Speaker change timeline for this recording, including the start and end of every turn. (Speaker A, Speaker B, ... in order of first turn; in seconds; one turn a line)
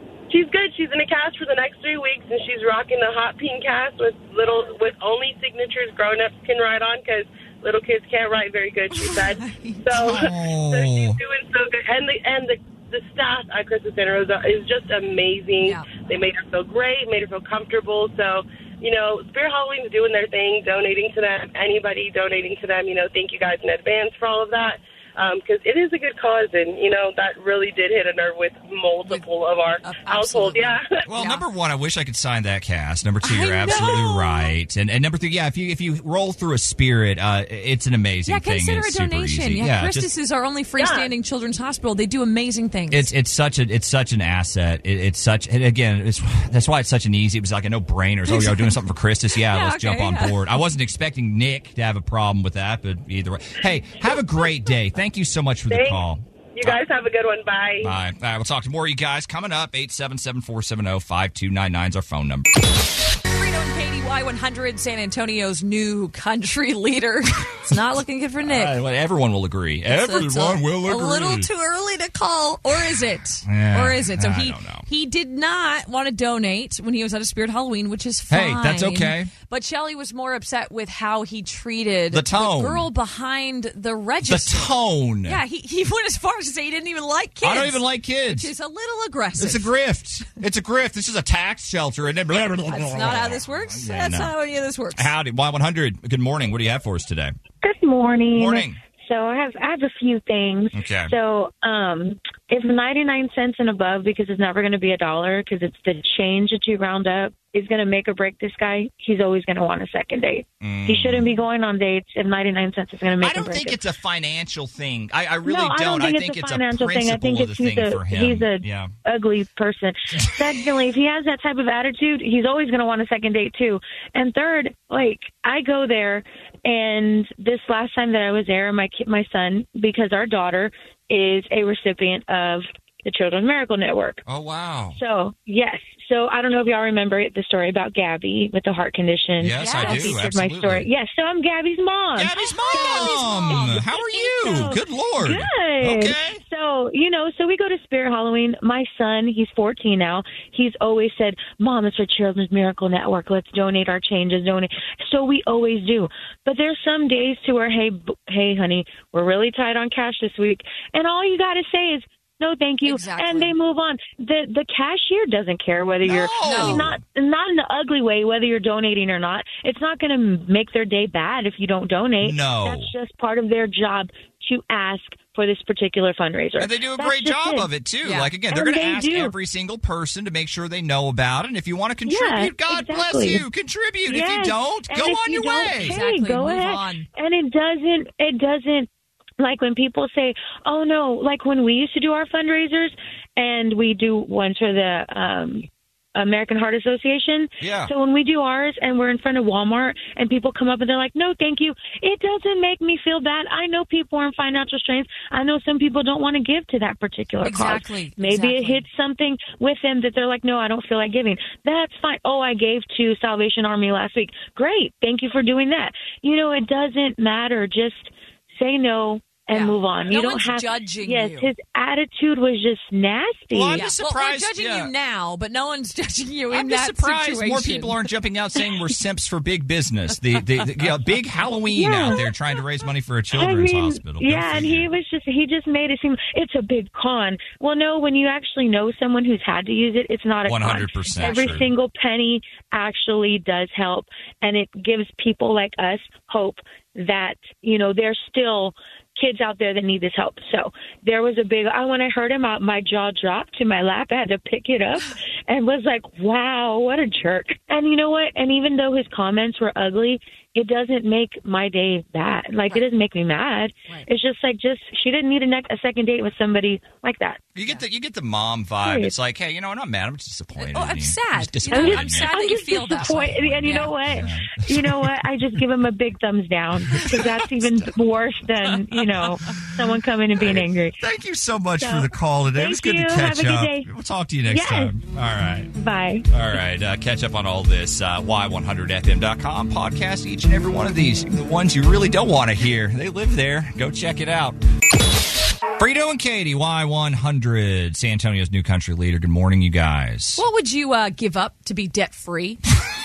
Speaker A: 0.3-30.9
Speaker B: 8.9-9.9
Speaker C: 9.9-11.2
Speaker B: 15.6-15.9
Speaker B: 29.8-31.4
Speaker C: 31.0-40.1
Speaker B: 33.2-34.5
Speaker B: 38.2-43.1
Speaker A: 40.8-41.1
Speaker C: 42.9-56.8
Speaker B: 48.3-48.7
Speaker B: 49.5-50.4
Speaker A: 55.7-56.0
Speaker A: 56.5-57.9
Speaker C: 57.8-62.5
Speaker B: 63.2-68.7
Speaker C: 68.4-71.5
Speaker B: 69.9-84.7
Speaker C: 73.5-74.8
Speaker C: 78.3-79.3
Speaker C: 82.1-82.9
Speaker C: 84.2-85.4
Speaker B: 85.2-89.7
Speaker C: 87.4-88.5
Speaker C: 89.4-94.3
Speaker B: 92.7-95.1
Speaker C: 94.9-97.3
Speaker D: 97.6-113.8
Speaker C: 98.3-98.8
Speaker C: 100.7-101.1
Speaker C: 110.6-111.3
Speaker C: 113.2-118.9
Speaker D: 115.4-134.2
Speaker C: 134.2-135.0
Speaker D: 134.9-177.7
Speaker C: 139.4-140.9
Speaker B: 139.6-140.2
Speaker C: 142.2-146.4
Speaker B: 142.7-144.6
Speaker B: 162.8-163.5
Speaker C: 166.0-167.0
Speaker B: 166.4-166.9
Speaker C: 172.2-172.9
Speaker C: 176.6-186.0
Speaker B: 178.0-178.3
Speaker D: 178.5-179.3
Speaker D: 182.1-183.4
Speaker D: 184.1-188.9
Speaker B: 185.8-187.1
Speaker D: 189.4-223.9
Speaker C: 197.6-197.9
Speaker B: 207.4-208.8
Speaker B: 219.5-221.5
Speaker C: 223.5-224.9
Speaker B: 223.7-227.9
Speaker C: 226.5-234.9
Speaker D: 231.7-232.2
Speaker D: 233.3-267.4
Speaker C: 240.4-241.7
Speaker B: 241.2-241.6
Speaker C: 267.5-272.3
Speaker D: 268.8-269.1
Speaker B: 270.6-273.9
Speaker D: 271.7-281.0
Speaker C: 273.0-275.2
Speaker C: 276.9-277.8
Speaker C: 279.1-279.8
Speaker C: 280.4-285.7
Speaker D: 281.8-283.9
Speaker D: 284.5-284.9
Speaker D: 285.7-286.2
Speaker C: 286.3-294.6
Speaker C: 295.8-300.4
Speaker B: 300.4-302.6